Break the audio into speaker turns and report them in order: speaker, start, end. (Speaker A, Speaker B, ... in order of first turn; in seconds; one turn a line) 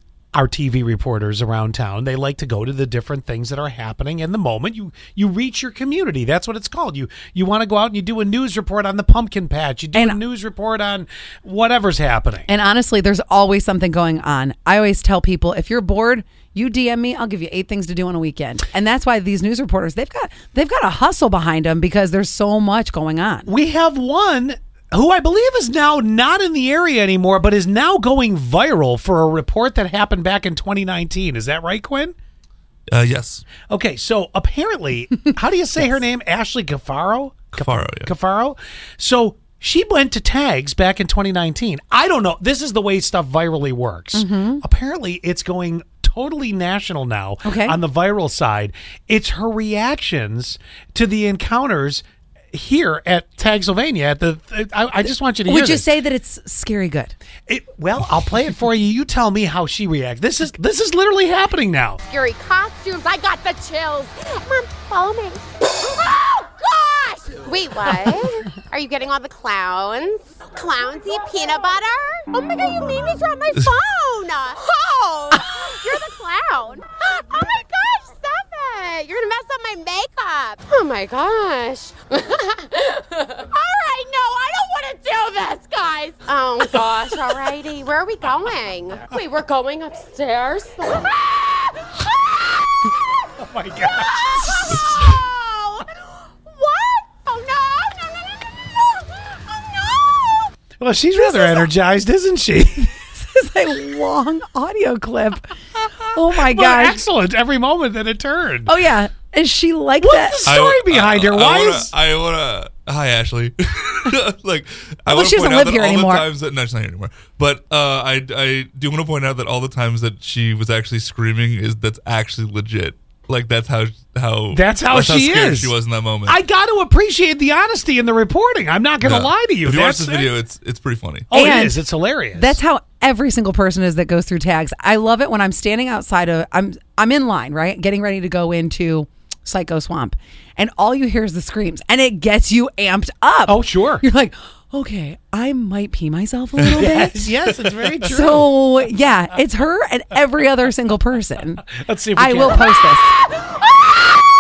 Speaker A: 0.3-12.5
Speaker B: 9.9-10.2
Speaker B: 12.5-23.5
Speaker A: 23.5-32.1
Speaker C: 32.9-33.4
Speaker A: 33.7-55.9
Speaker C: 37.6-38.1
Speaker B: 44.1-44.6
Speaker B: 47.5-47.8
Speaker B: 55.5-57.1
Speaker A: 57.5-62.0
Speaker D: 62.1-92.0
Speaker A: 93.4-94.7
Speaker D: 93.9-100.5
Speaker A: 100.8-103.0
Speaker B: 101.2-101.7
Speaker B: 103.2-105.5
Speaker B: 106.1-107.0
Speaker A: 106.3-108.8
Speaker B: 108.7-110.5
Speaker A: 110.0-111.9
Speaker C: 110.5-126.4
Speaker B: 115.1-116.3
Speaker A: 124.5-125.7
Speaker A: 126.3-130.3
Speaker C: 129.0-131.3
Speaker A: 131.3-132.6
Speaker B: 131.3-131.8
Speaker B: 132.3-147.3
Speaker A: 143.5-144.1
Speaker A: 146.6-148.5
Speaker B: 148.1-153.1
Speaker A: 151.8-152.8